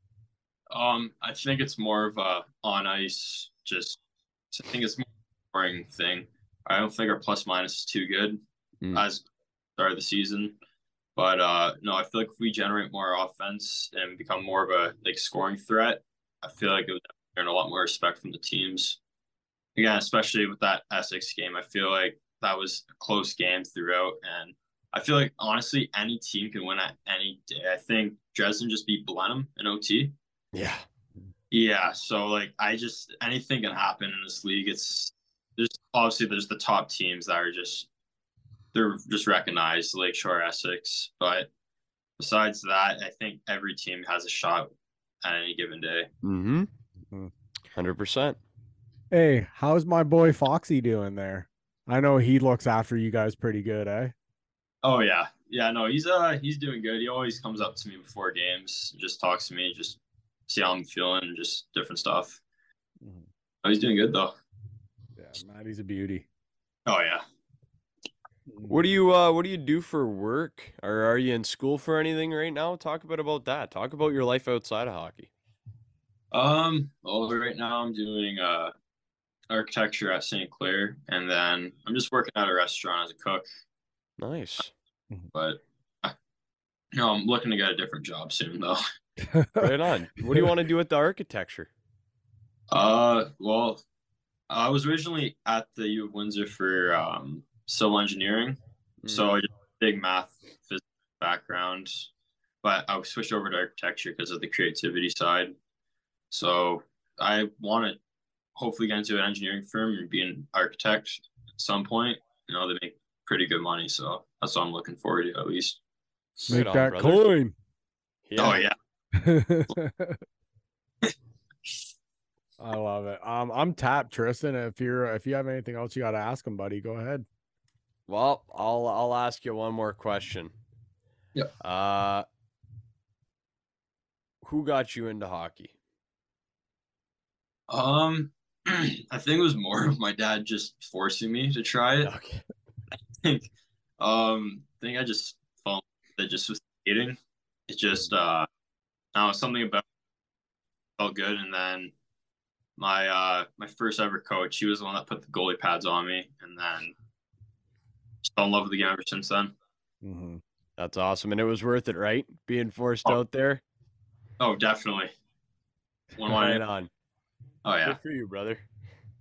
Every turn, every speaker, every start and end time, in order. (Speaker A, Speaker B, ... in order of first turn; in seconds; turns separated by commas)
Speaker A: 0.7-4.0, Speaker A: 4.5-8.4, Speaker A: 8.9-9.2, Speaker A: 9.8-10.6, Speaker A: 11.2-19.0, Speaker A: 19.8-30.1, Speaker B: 30.5-30.8, Speaker A: 31.5-37.9, Speaker A: 38.7-41.5, Speaker A: 42.2-46.1, Speaker B: 46.2-46.7, Speaker B: 47.7-48.4, Speaker C: 49.1-54.1, Speaker A: 54.8-62.4, Speaker C: 63.0-63.3, Speaker A: 63.6-64.3, Speaker C: 65.2-66.3, Speaker A: 66.8-67.2, Speaker C: 68.5-68.8, Speaker B: 68.7-75.3, Speaker A: 76.3-78.7, Speaker A: 79.5-83.5, Speaker B: 84.2-84.7, Speaker A: 85.3-86.1, Speaker A: 87.0-88.8, Speaker C: 89.2-89.7, Speaker B: 89.6-91.7, Speaker A: 92.7-93.8, Speaker A: 94.5-102.1, Speaker B: 99.0-99.3, Speaker A: 102.6-105.5, Speaker A: 106.3-108.0, Speaker A: 108.5-115.8, Speaker C: 116.5-117.5, Speaker B: 116.5-117.2, Speaker B: 118.2-118.6, Speaker A: 118.4-118.7, Speaker C: 119.1-120.2, Speaker C: 122.6-127.3, Speaker B: 128.1-130.5, Speaker B: 131.6-132.2, Speaker B: 134.4-135.7, Speaker A: 137.7-142.1, Speaker B: 142.0-142.4, Speaker A: 143.2-147.2, Speaker A: 147.7-148.5, Speaker A: 149.1-149.8, Speaker A: 151.0-151.9, Speaker A: 152.8-156.9, Speaker A: 158.2-159.5, Speaker C: 160.0-160.4, Speaker B: 160.8-163.6, Speaker A: 164.4-165.1, Speaker A: 166.2-166.6, Speaker B: 166.3-166.9, Speaker A: 167.6-168.0, Speaker B: 167.8-168.6